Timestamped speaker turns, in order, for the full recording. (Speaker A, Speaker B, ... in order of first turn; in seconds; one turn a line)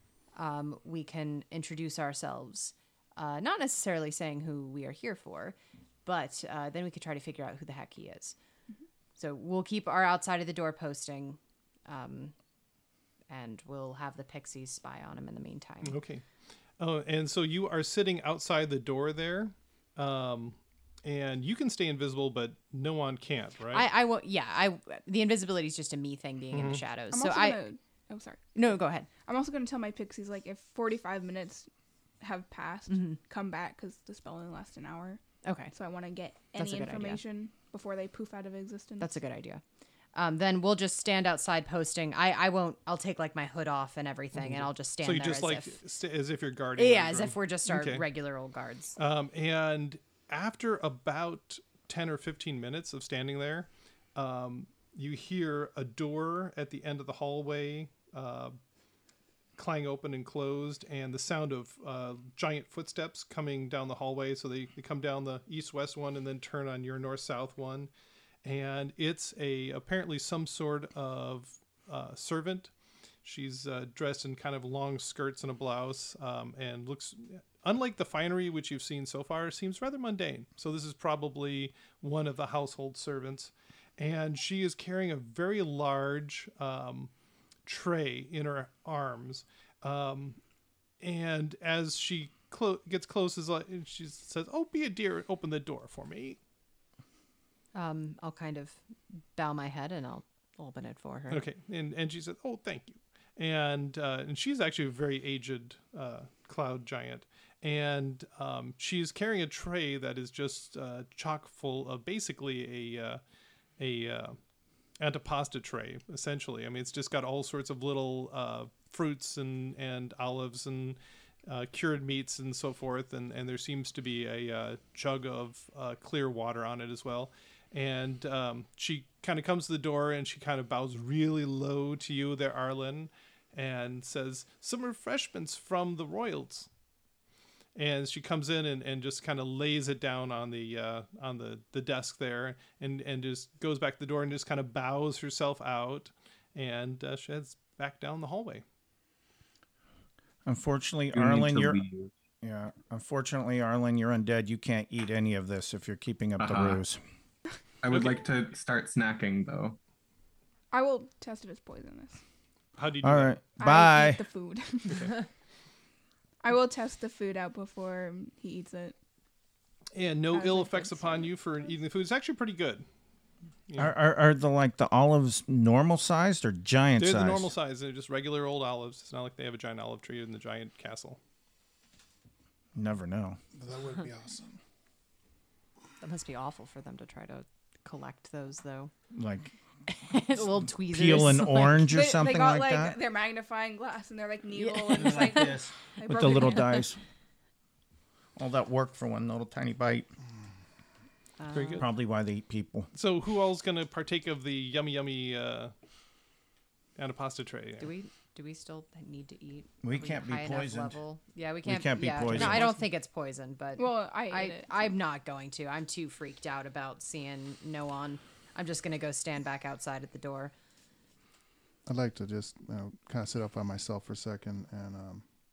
Speaker A: 0.4-8.4
Speaker A: 9.2-12.3
Speaker A: 13.3-16.0
Speaker B: 15.8-16.2
Speaker B: 16.8-23.9
Speaker A: 23.7-27.6
Speaker B: 26.5-26.8
Speaker C: 27.1-28.6
Speaker A: 28.6-29.1
Speaker C: 29.2-31.7
Speaker C: 32.2-39.1
Speaker A: 32.9-33.2
Speaker A: 35.5-35.7
Speaker A: 36.5-37.2
Speaker A: 39.0-39.6
Speaker A: 40.1-45.8
Speaker B: 44.4-48.0
Speaker A: 46.8-49.0
Speaker B: 49.0-58.6
Speaker B: 59.6-67.9
Speaker B: 68.5-72.7
Speaker B: 73.2-87.1
Speaker B: 87.7-90.4
Speaker B: 91.0-96.4
Speaker A: 97.8-98.8
Speaker A: 99.3-101.4
Speaker B: 101.3-113.2
Speaker B: 113.8-114.4
Speaker B: 115.0-136.7
Speaker B: 137.8-148.6
Speaker D: 150.4-151.8
Speaker E: 151.1-152.1
Speaker D: 152.4-157.0
Speaker E: 156.4-156.8
Speaker E: 157.8-159.8
Speaker B: 157.9-158.2
Speaker C: 160.7-162.2
Speaker B: 162.8-163.4
Speaker D: 163.0-164.2
Speaker C: 163.6-165.2
Speaker B: 164.9-165.1
Speaker C: 166.4-169.0
Speaker B: 169.9-172.9
Speaker C: 170.3-171.7
Speaker B: 173.7-173.9
Speaker D: 173.8-177.5
Speaker B: 177.0-181.2
Speaker D: 182.8-183.4
Speaker F: 183.6-184.6
Speaker A: 186.0-188.9
Speaker D: 189.1-189.5
Speaker A: 189.9-191.9
Speaker D: 190.1-190.3
Speaker D: 190.9-193.0
Speaker C: 191.9-196.9
Speaker A: 194.6-195.5
Speaker D: 194.9-197.0
Speaker A: 196.2-196.7
Speaker D: 198.4-200.1
Speaker A: 201.4-201.9
Speaker B: 201.5-201.8
Speaker D: 201.8-202.9
Speaker B: 202.9-205.7
Speaker B: 207.0-207.9
Speaker A: 207.8-220.5
Speaker D: 209.8-211.0
Speaker D: 211.6-212.8
Speaker C: 213.8-214.9
Speaker F: 221.9-225.3